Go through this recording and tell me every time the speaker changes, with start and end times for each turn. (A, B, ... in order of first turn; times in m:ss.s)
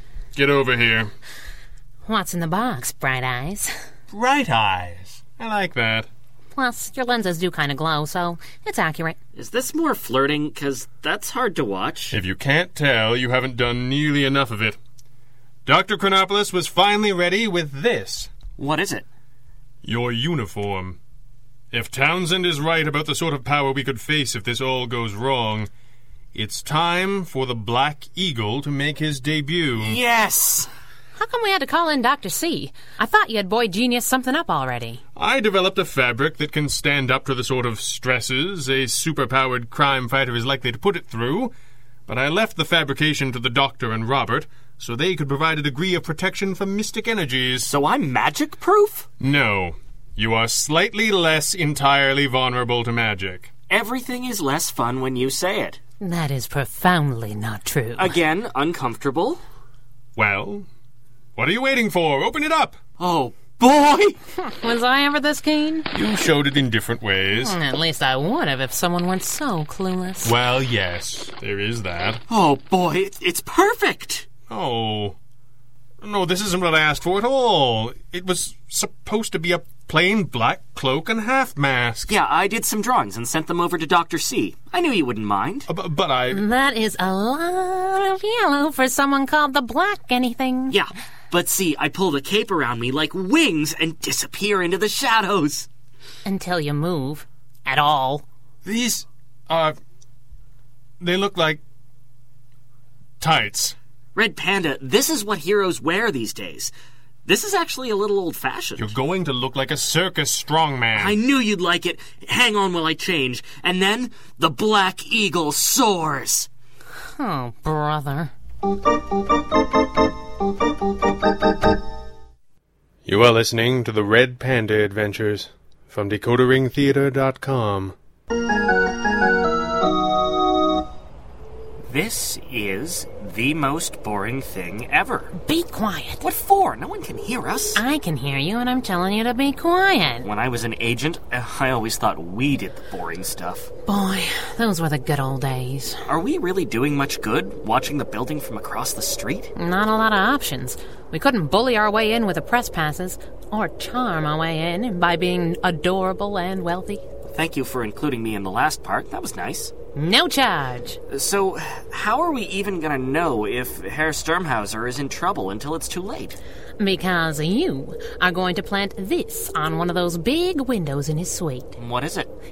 0:00.3-0:01.1 A
0:02.0-0:03.7 B
0:04.1-0:06.1 A
0:06.6-0:09.2 B
0:09.4-0:12.2 C
0:12.1-0:14.8 A
0:15.6-0:18.3 A
0:18.6-0:19.0 C
0:19.8-0:21.0 A
0:21.7-0:25.7 A
0:26.3-0:30.0 A
0:29.8-0:30.7 C
0:31.2-0:35.0 B
0:35.2-0:41.5 A
0:42.1-0:47.7 A
0:47.7-0:49.1 C
0:49.2-0:53.5 A
0:53.7-0:55.8 C
0:56.0-0:58.1 B
0:58.0-0:59.4 C
1:00.2-1:00.6 A
1:01.4-1:02.8 A
1:03.0-1:04.2 C
1:04.4-1:05.9 B
1:05.9-1:07.6 A
1:07.4-1:10.3 B
1:10.2-1:12.2 A
1:12.3-1:14.3 C
1:14.5-1:15.2 A
1:16.0-1:22.1 A
1:22.1-1:25.7 C
1:25.7-1:26.4 A
1:26.3-1:30.8 B
1:30.7-1:35.7 C
1:36.2-1:38.2 B
1:38.6-1:39.8 A
1:41.0-1:41.6 A
1:43.2-1:43.7 A
1:44.1-1:46.7 C
1:47.2-1:48.9 C
1:48.8-1:51.2 A
1:50.9-1:56.5 C
1:57.2-1:58.3 B
2:03.0-2:07.9 A
2:11.9-2:15.3 C
2:15.4-2:16.2 B
2:16.2-2:17.8 C
2:17.8-2:20.3 B
2:20.2-2:23.7 C
2:23.9-2:26.0 B
2:26.1-2:29.5 C
2:29.6-2:37.0 B
2:37.3-2:39.7 C
2:39.9-2:41.0 B
2:41.1-2:46.4 C
2:46.8-2:51.8 B
2:51.8-2:52.3 C